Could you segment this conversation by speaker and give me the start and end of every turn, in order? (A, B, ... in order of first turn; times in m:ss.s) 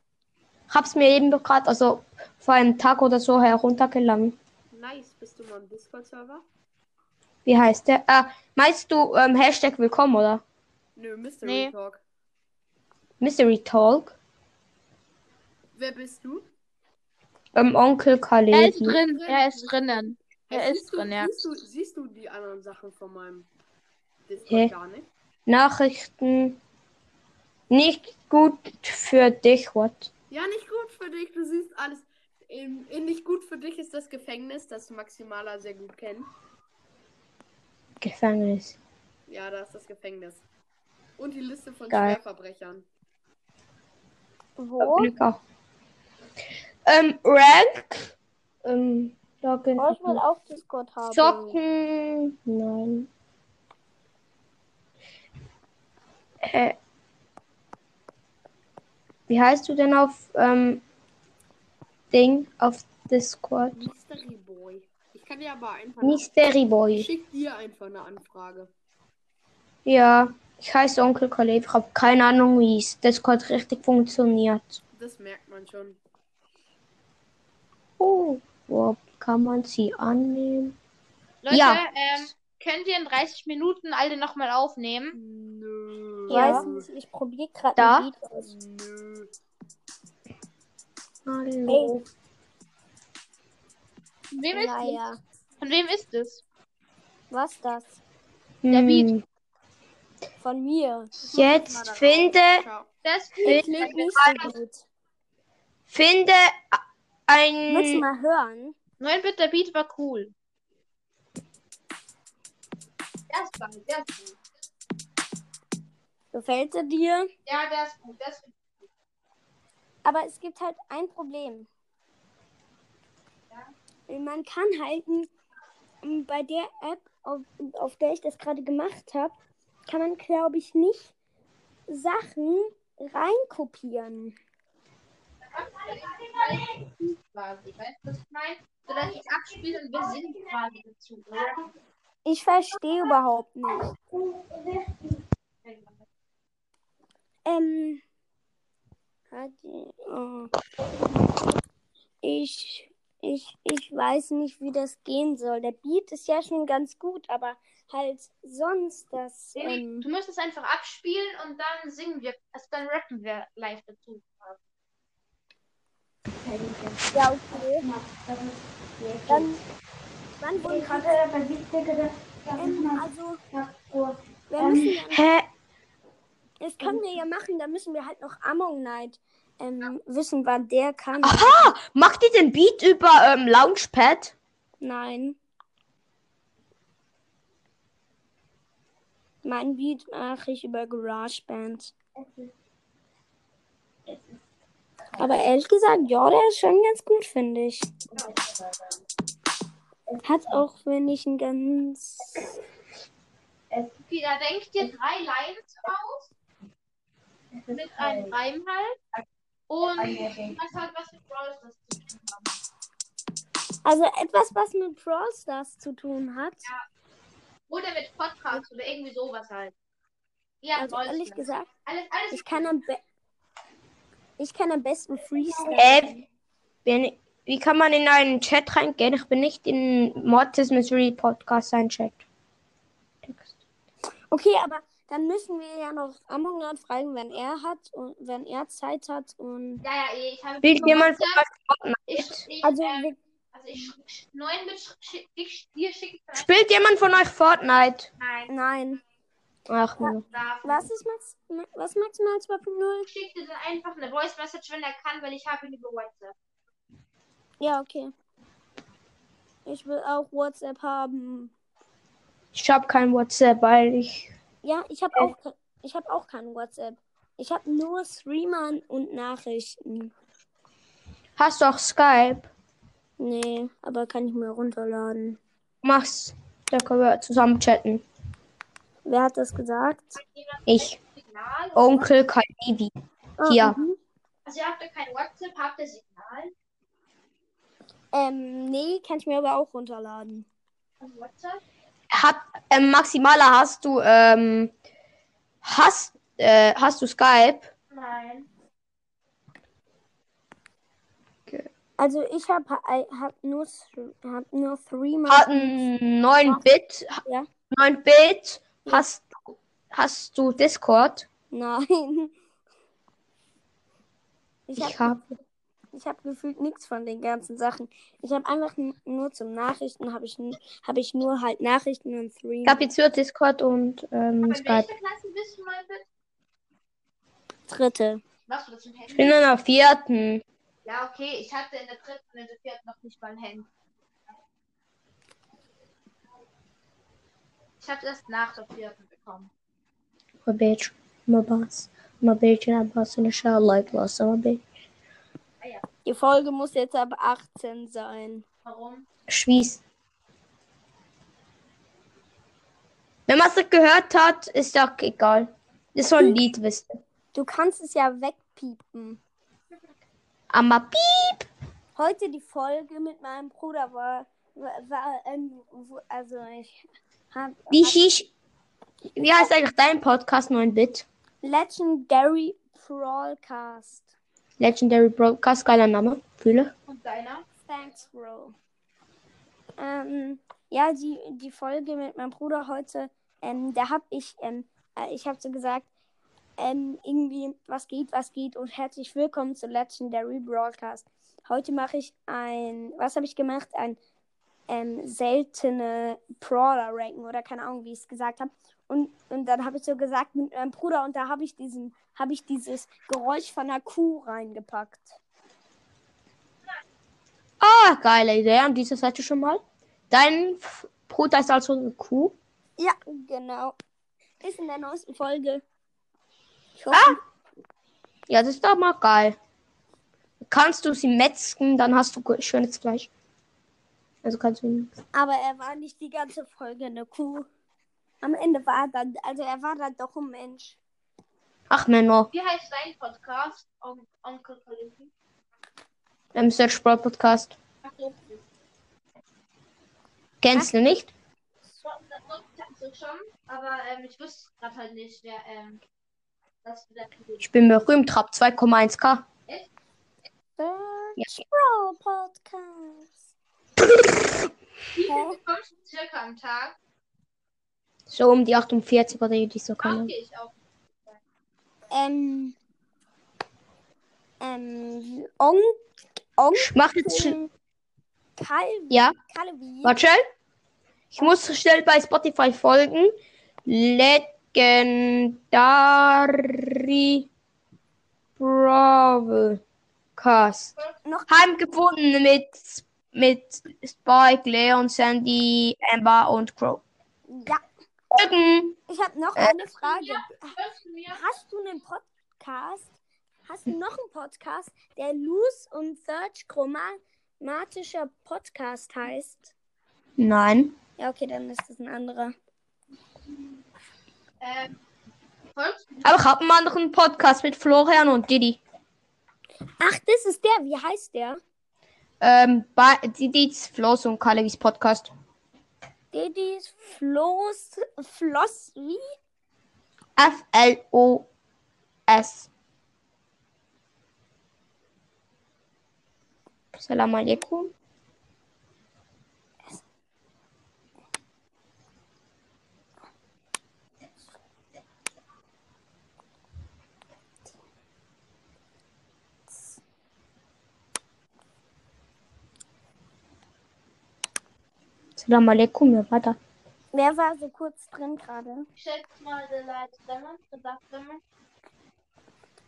0:00.7-0:04.4 A
0:04.7-0:06.4 B
0:07.4-0:10.4 A
0:11.0-0:12.0 B
0:11.4-0:11.7 C
0:13.2-0:14.2 A
0:15.7-0:16.5 B
0:17.5-0:19.0 A
0:18.5-0:21.3 C
0:19.0-0:23.5 B
0:24.2-0:25.1 B
0:25.5-0:26.6 A
0:27.7-0:30.1 A
0:30.3-0:36.3 B
0:38.0-0:38.8 A
0:39.3-0:40.4 B
0:41.2-0:42.9 B
0:41.9-0:42.2 A
0:44.6-0:45.1 D
0:44.8-0:45.4 A
0:46.8-0:50.2 A
0:49.8-0:51.6 D
0:51.1-0:53.1 A
0:56.4-0:56.8 A
0:59.3-1:00.8 A
1:02.1-1:03.9 A
1:03.7-1:06.3 B
1:06.0-1:07.1 A
1:06.9-1:08.7 B
1:09.8-1:14.8 A
1:14.9-1:16.0 B
1:18.0-1:20.8 A
1:21.4-1:25.2 C
1:21.5-1:22.3 A
1:25.1-1:26.9 B
1:26.3-1:28.5 D
1:26.3-1:26.6 C
1:27.8-1:28.1 A
1:28.4-1:29.3 B
1:31.2-1:32.1 A
1:31.7-1:31.9 D
1:34.3-1:35.0 C
1:34.5-1:35.2 D
1:35.6-1:36.4 C
1:37.3-1:38.0 D
1:38.6-1:39.2 A
1:38.7-1:39.1 C
1:40.4-1:41.1 D
1:41.2-1:42.9 B
1:41.3-1:42.6 A
1:43.0-1:44.5 C
1:43.4-1:44.9 D
1:43.4-1:44.5 A
1:45.9-1:48.0 A
1:47.7-1:48.7 D
1:49.0-1:50.3 C
1:53.3-1:54.4 C
1:56.3-1:57.3 D
1:57.4-1:58.9 C
2:00.0-2:01.7 D
2:04.1-2:05.3 D
2:06.0-2:09.4 D
2:09.9-2:11.1 D
2:11.9-2:14.4 D
2:15.5-2:21.7 C
2:22.2-2:23.9 D
2:25.6-2:26.0 C
2:27.4-2:28.0 D
2:29.3-2:30.5 D
2:32.2-2:40.0 D
2:39.5-2:44.6 C
2:46.4-2:49.6 A
2:47.1-2:47.9 D
2:49.3-2:49.6 D
2:50.4-2:51.2 D
2:50.6-2:55.5 A
2:52.6-2:53.4 D
2:54.5-2:55.2 D
2:56.6-3:01.7 D
3:01.2-3:04.3 A
3:04.8-3:05.4 D
3:09.4-3:11.9 D
3:15.2-3:18.0 D
3:20.2-3:22.5 D
3:24.0-3:26.3 C
3:27.6-3:28.3 A
3:27.7-3:29.0 C
3:29.7-3:32.5 C
3:30.0-3:30.6 A
3:33.8-3:36.7 D
3:37.7-3:39.7 C
3:40.6-3:42.7 C
3:40.8-3:41.6 D
3:42.3-3:43.0 D
3:44.4-3:46.2 D
3:45.7-3:46.2 A
3:46.8-3:52.2 A
3:53.2-3:53.5 A
3:54.3-3:59.8 D
3:59.8-4:01.4 C
4:00.6-4:02.4 A
4:02.1-4:06.5 C
4:02.6-4:03.2 D
4:06.3-4:08.1 A
4:08.2-4:08.5 C
4:08.5-4:09.0 D
4:09.7-4:10.2 A
4:10.0-4:13.1 D
4:10.3-4:10.9 C
4:13.1-4:16.3 C
4:17.6-4:18.1 D
4:19.6-4:21.5 D
4:22.5-4:24.3 A
4:24.6-4:30.1 D
4:31.4-4:32.5 A
4:33.2-4:35.4 D
4:35.8-4:38.0 A
4:39.0-4:40.2 D
4:40.2-4:42.1 C
4:40.7-4:41.0 A
4:41.7-4:42.9 A
4:43.4-4:44.0 D
4:43.4-4:43.8 A
4:44.4-4:46.5 C
4:48.1-4:50.5 D
4:51.0-4:51.6 C
4:52.1-4:54.7 A
4:55.6-4:57.7 A
4:57.9-4:58.5 C
5:02.0-5:05.8 D
5:05.3-5:07.2 A
5:07.7-5:11.3 A
5:11.5-5:12.3 D
5:14.7-5:15.1 D
5:14.8-5:15.4 A
5:15.9-5:22.8 D
5:22.6-5:24.9 A
5:24.4-5:26.0 C
5:27.7-5:28.2 D
5:28.5-5:29.4 C
5:29.1-5:30.4 A
5:30.8-5:33.7 C
5:37.8-5:39.5 C
5:40.4-5:44.6 A
5:46.0-5:48.4 D
5:48.6-5:49.0 C
5:49.3-5:49.8 A
5:53.3-5:56.9 A
5:57.3-5:59.2 D
6:00.5-6:01.5 A
6:02.0-6:06.8 D
6:07.3-6:08.0 D
6:07.7-6:08.3 A
6:09.1-6:11.0 A
6:11.4-6:14.1 D
6:14.6-6:16.7 A
6:16.9-6:17.4 C
6:17.6-6:18.6 D
6:19.8-6:25.9 D
6:26.6-6:34.0 D
6:34.7-6:45.2 D
6:47.6-6:52.3 A
6:52.8-6:53.8 D
6:54.4-6:55.6 D
6:56.8-6:57.2 D
6:56.9-6:57.2 A
6:58.3-6:59.4 A
7:00.4-7:03.1 A
7:04.2-7:04.9 A
7:05.1-7:07.5 D
7:08.2-7:10.8 D
7:11.7-7:12.3 A
7:12.3-7:15.1 C
7:16.3-7:17.6 A
7:17.8-7:18.4 C
7:20.4-7:21.1 A
7:20.5-7:21.0 D
7:21.8-7:25.8 C
7:26.6-7:27.4 C
7:27.4-7:29.2 A
7:30.6-7:33.2 D
7:34.9-7:36.8 C
7:35.0-7:35.4 D
7:38.1-7:40.1 A
7:39.8-7:41.2 C
7:41.9-7:42.5 D
7:44.4-7:45.8 D
7:46.4-7:47.5 D
7:46.5-7:47.4 A
7:48.4-7:50.0 D
7:48.9-7:49.1 A
7:49.8-7:50.2 A
7:51.1-7:53.1 A
7:53.6-7:57.3 A
7:58.4-7:59.6 A
8:00.2-8:00.7 A
8:01.0-8:01.3 D
8:01.3-8:06.8 A
8:07.3-8:07.6 D
8:08.1-8:08.8 A
8:08.9-8:10.6 D
8:09.8-8:11.3 C
8:11.1-8:12.9 D
8:13.4-8:19.5 D
8:20.2-8:20.8 A
8:21.0-8:22.3 D
8:24.4-8:24.8 C
8:25.5-8:26.2 C
8:26.0-8:28.6 A
8:29.8-8:31.4 D
8:32.2-8:35.1 A
8:36.1-8:39.1 D
8:40.2-8:41.3 A
8:42.1-8:42.5 A
8:46.7-8:47.7 A
8:59.5-8:59.8 D
9:05.2-9:06.4 A
9:06.9-9:08.7 D
9:08.8-9:11.2 C